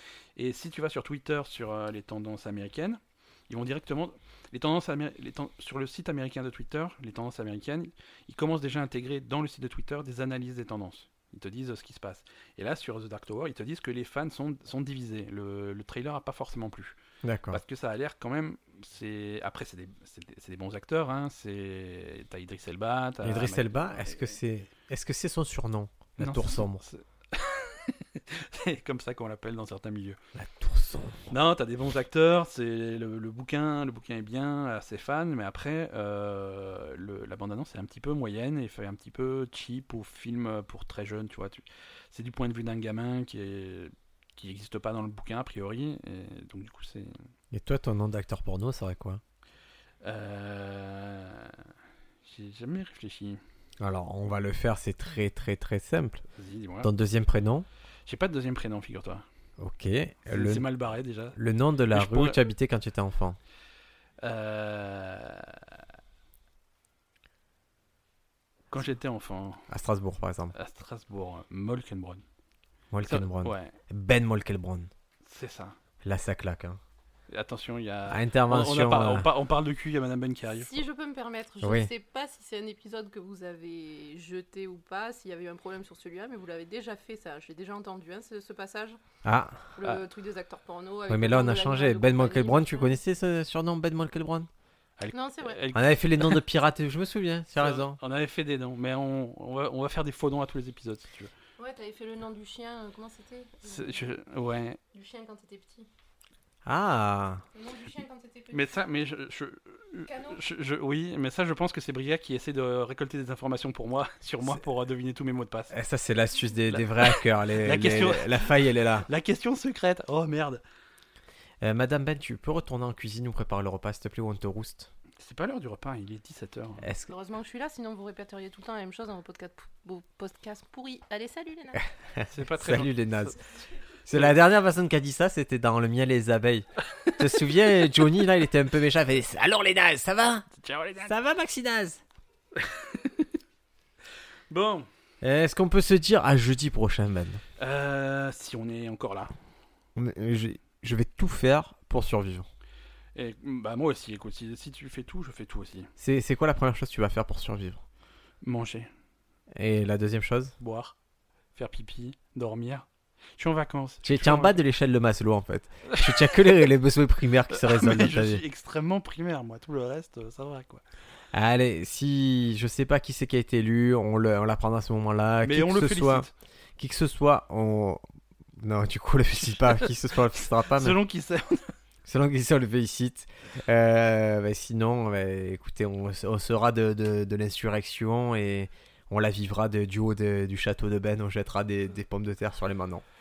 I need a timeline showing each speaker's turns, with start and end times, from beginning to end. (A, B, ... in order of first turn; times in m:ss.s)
0:00.4-0:17.0 A
0:17.2-0:17.6 B
0:17.5-0:24.4 A
0:23.2-0:26.8 B
0:26.2-0:30.2 A
0:30.4-0:31.2 B
0:31.3-0:47.2 A
0:47.5-0:49.2 B
0:50.0-0:51.6 A
0:52.2-0:53.4 A
0:53.8-0:56.2 B
0:56.3-0:56.9 A
0:56.8-0:57.7 B
0:58.1-0:59.2 A
0:59.6-1:00.7 B
1:00.3-1:01.4 A
1:01.4-1:03.4 B
1:01.9-1:02.4 A
1:04.2-1:05.6 A
1:08.7-1:09.7 A
1:09.7-1:10.6 B
1:10.6-1:12.2 A
1:12.9-1:14.9 B
1:13.0-1:13.8 A
1:15.2-1:15.8 A
1:16.0-1:16.8 B
1:17.3-1:20.8 A
1:18.1-1:19.3 B
1:20.6-1:29.0 C
1:21.6-1:21.9 B
1:29.2-1:29.6 B
1:29.8-1:33.0 C
1:31.1-1:34.5 B
1:35.0-1:36.4 A
1:35.1-1:35.6 C
1:35.7-1:38.0 B
1:37.6-1:41.3 A
1:41.6-1:44.1 C
1:43.6-1:44.8 A
1:44.9-1:45.9 C
1:46.7-1:47.4 B
1:47.6-1:48.8 C
1:48.5-1:55.8 A
1:50.1-1:50.4 C
1:55.7-1:59.1 B
1:56.7-2:00.6 A
2:01.6-2:04.9 B
2:05.2-2:06.9 A
2:06.8-2:07.1 B
2:07.1-2:11.9 C
2:12.2-2:13.4 B
2:12.3-2:13.4 A
2:14.1-2:20.5 B
2:14.1-2:14.4 A
2:20.5-2:21.2 A
2:21.0-2:22.0 B
2:22.6-2:23.3 A
2:24.5-2:24.9 A
2:25.2-2:27.4 B
2:27.6-2:29.3 A
2:30.0-2:32.5 B
2:33.2-2:35.9 A
2:36.0-2:37.8 B
2:38.4-2:38.9 A
2:39.6-2:40.6 B
2:40.6-2:41.0 A
2:41.6-2:44.6 A
2:44.0-2:48.4 B
2:45.9-2:46.3 A
2:47.5-2:50.8 A
2:51.3-2:58.0 B
2:55.4-2:56.3 A
2:58.6-3:01.0 B
3:00.7-3:01.7 A
3:02.0-3:13.0 B